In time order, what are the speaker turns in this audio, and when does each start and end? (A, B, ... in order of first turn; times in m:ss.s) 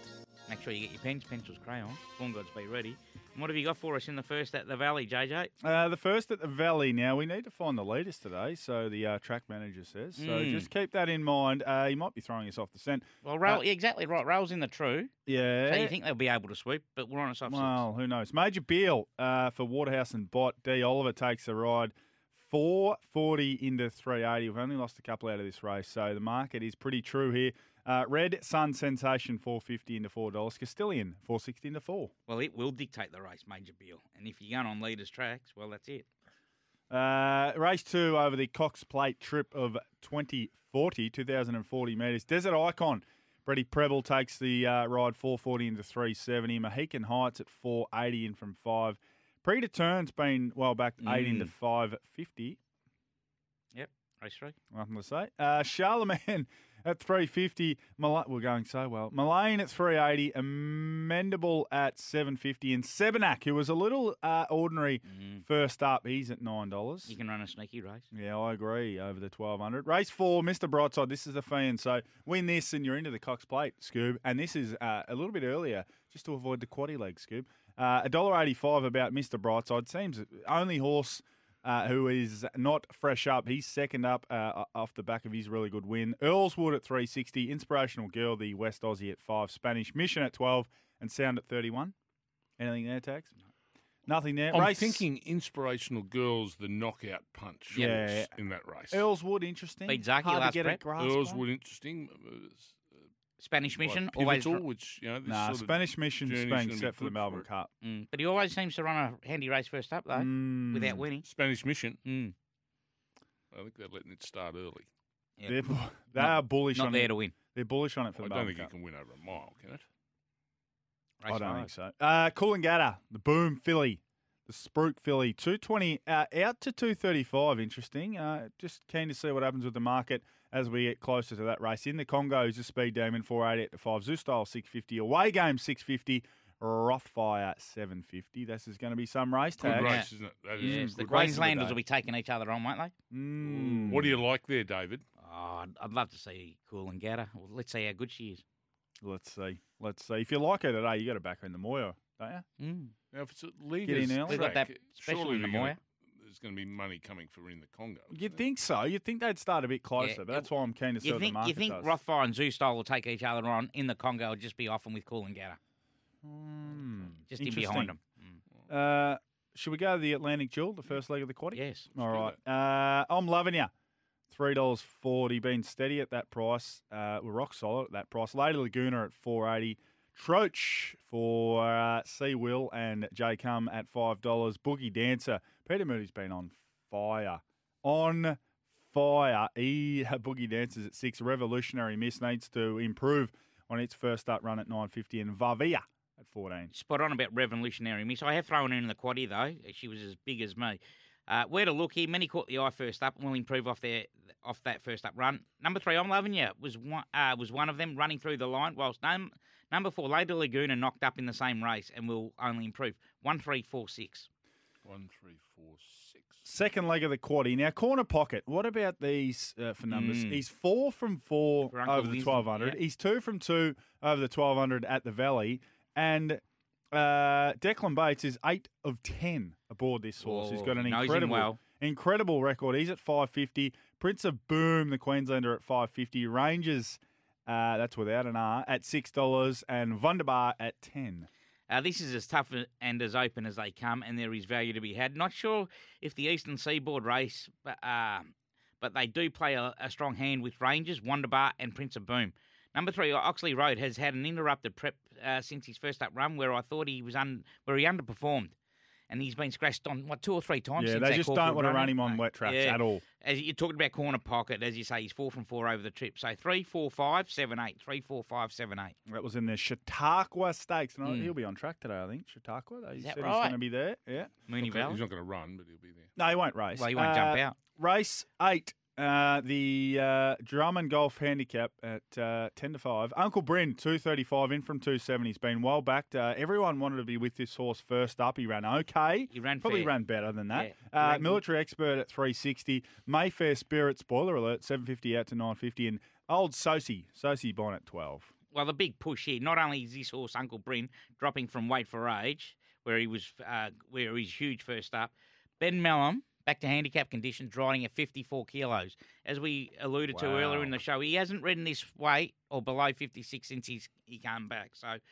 0:00.5-0:05.5 A
0:05.6-0:13.6 B
0:10.2-0:10.7 A
0:13.2-0:15.1 A
0:15.3-0:16.0 B
0:15.7-0:17.8 A
0:17.5-0:32.1 B
0:32.3-0:36.1 A
0:36.9-0:52.6 B
0:51.0-0:51.5 A
0:53.7-0:54.6 A
0:54.7-1:07.1 B
1:05.1-1:05.4 A
1:07.1-1:08.1 A
1:08.1-1:32.0 B
1:32.6-1:33.3 B
1:34.1-1:35.0 B
1:34.5-1:39.0 C
1:37.7-1:38.0 A
1:37.7-1:38.3 B
1:38.9-1:41.4 B
1:39.9-1:40.8 A
1:41.0-1:43.0 C
1:43.4-1:44.6 A
1:43.8-1:47.4 C
1:45.3-1:47.7 B
1:47.8-1:51.3 A
1:50.1-1:51.0 B
1:51.2-1:52.0 C
1:52.0-1:52.3 A
1:53.5-1:54.9 C
1:55.4-1:57.4 A
1:55.5-1:58.7 B
1:58.2-1:59.8 C
2:01.2-2:01.7 A
2:01.3-2:20.0 B
2:19.6-2:21.8 C
2:19.6-2:20.1 A
2:20.6-2:21.8 B
2:20.6-2:22.9 A
2:23.1-2:24.2 B
2:23.4-2:25.0 C
2:25.2-2:28.4 A
2:29.0-2:32.4 B
2:32.6-2:33.0 A
2:33.1-2:38.3 C
2:33.8-2:34.5 B
2:34.3-2:35.8 A
2:38.1-2:41.9 B
2:40.0-2:40.5 A
2:41.0-2:45.6 A
2:46.2-2:48.0 B
2:47.3-2:48.4 A
2:48.7-2:53.7 B
2:51.5-2:51.9 A
2:52.0-2:52.4 C
2:54.3-3:16.7 B
3:16.7-3:34.3 A
3:34.8-3:36.4 C
3:36.4-3:46.4 B
3:39.9-3:40.4 A
3:41.6-3:42.8 A
3:46.9-4:01.3 B
3:50.2-3:51.6 A
4:01.7-4:18.5 A
4:19.1-4:29.0 A
4:20.8-4:23.0 B
4:29.1-4:34.3 B
4:31.0-4:31.4 A
4:33.0-4:33.6 A
4:34.5-4:35.0 A
4:34.6-4:36.1 C
4:36.2-4:58.3 B
4:36.7-4:37.6 A
4:49.3-4:50.0 A
4:50.5-4:51.4 A
4:58.5-5:15.0 A
5:10.1-5:10.8 B